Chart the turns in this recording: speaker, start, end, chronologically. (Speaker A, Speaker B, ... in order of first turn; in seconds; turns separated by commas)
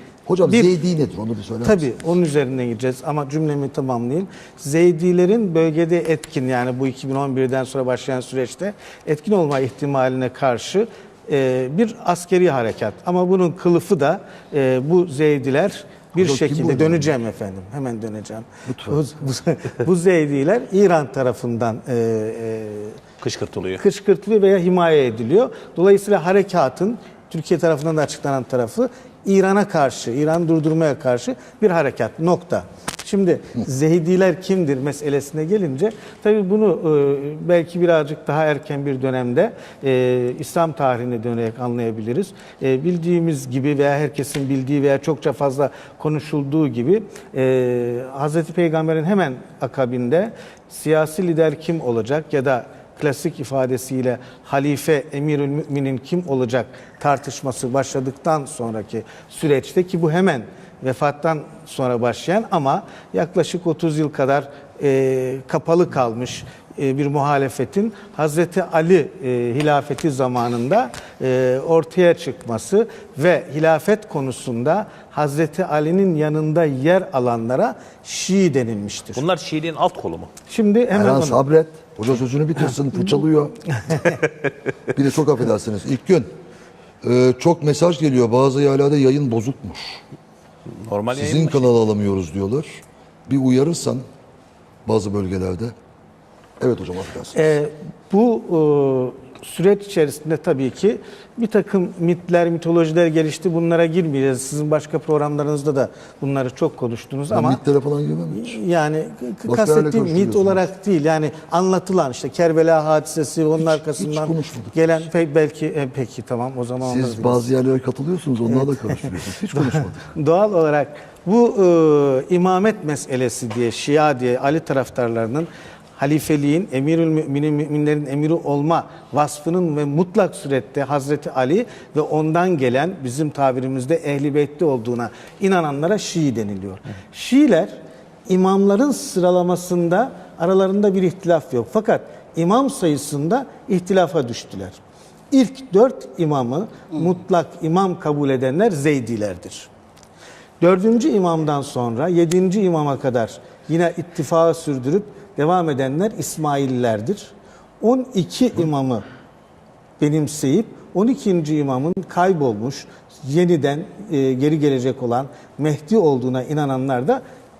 Speaker A: 0.2-1.9, Speaker B: 0.5-0.8, Speaker B: 1.6-23.0, Speaker A: 16.1-17.1, Speaker A: 18.7-19.0, Speaker C: 23.2-23.8, Speaker B: 23.8-79.2, Speaker C: 79.1-80.3, Speaker B: 80.5-81.4, Speaker A: 80.9-83.6, Speaker B: 83.8-84.2, Speaker A: 84.9-86.3, Speaker A: 87.0-90.0, Speaker C: 90.7-91.7, Speaker A: 91.1-94.0, Speaker A: 94.8-95.7, Speaker A: 96.6-97.5, Speaker B: 97.3-107.6, Speaker A: 107.3-108.6, Speaker B: 108.3-117.5, Speaker A: 109.4-110.6, Speaker A: 113.6-115.0, Speaker A: 116.8-120.1, Speaker B: 118.5-144.8, Speaker B: 145.3-149.7, Speaker B: 150.6-159.0, Speaker B: 160.0-167.2